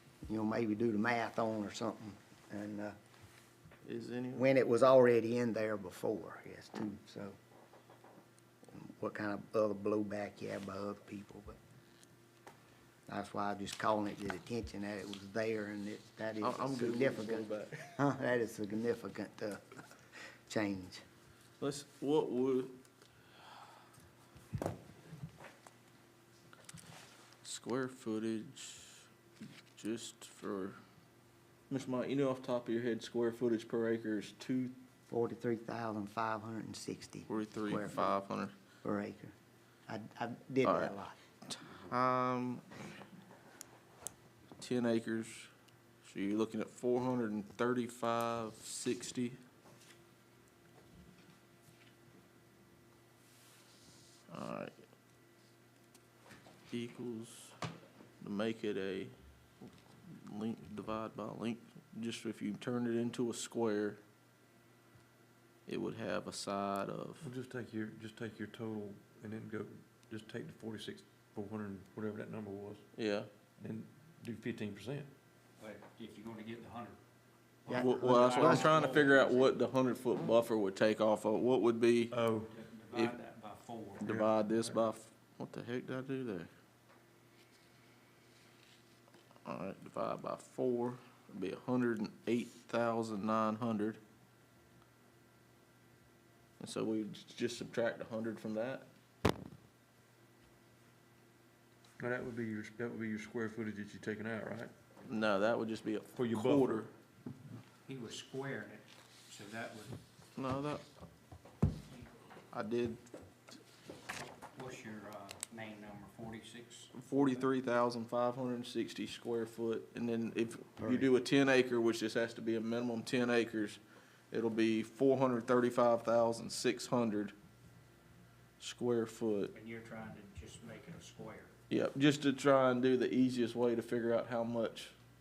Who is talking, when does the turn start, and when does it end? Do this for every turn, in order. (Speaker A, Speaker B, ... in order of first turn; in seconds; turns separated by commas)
Speaker A: 0.2-3.0, Speaker B: 3.8-4.5, Speaker A: 4.3-7.4, Speaker A: 8.7-11.6, Speaker A: 13.1-19.6, Speaker B: 16.4-17.9, Speaker A: 20.5-21.0, Speaker B: 21.6-22.8, Speaker B: 27.4-29.0, Speaker B: 29.8-30.8, Speaker B: 31.7-34.7, Speaker A: 35.1-38.2, Speaker B: 37.3-38.5, Speaker A: 38.8-39.3, Speaker A: 39.9-41.2, Speaker B: 40.6-40.9, Speaker B: 41.5-42.6, Speaker B: 44.6-45.5, Speaker B: 46.0-49.4, Speaker B: 54.3-54.7, Speaker B: 56.7-57.5, Speaker B: 58.2-59.1, Speaker B: 60.2-64.0, Speaker B: 65.7-67.3, Speaker C: 67.2-72.9, Speaker B: 73.0-73.3, Speaker C: 73.6-75.1, Speaker D: 75.6-77.0, Speaker A: 77.7-78.9, Speaker D: 77.7-79.5, Speaker B: 77.7-82.1, Speaker C: 82.1-82.5, Speaker D: 82.5-84.8, Speaker B: 84.0-86.5, Speaker B: 89.5-94.0, Speaker B: 96.6-98.9, Speaker C: 102.0-104.7, Speaker B: 105.0-106.9, Speaker C: 106.1-106.9, Speaker D: 107.8-110.0, Speaker B: 110.4-110.8, Speaker B: 112.5-113.0, Speaker D: 114.3-117.4, Speaker B: 116.9-123.8, Speaker A: 120.8-121.1, Speaker B: 124.3-127.3, Speaker B: 128.6-129.5, Speaker D: 129.5-131.5, Speaker B: 131.7-134.9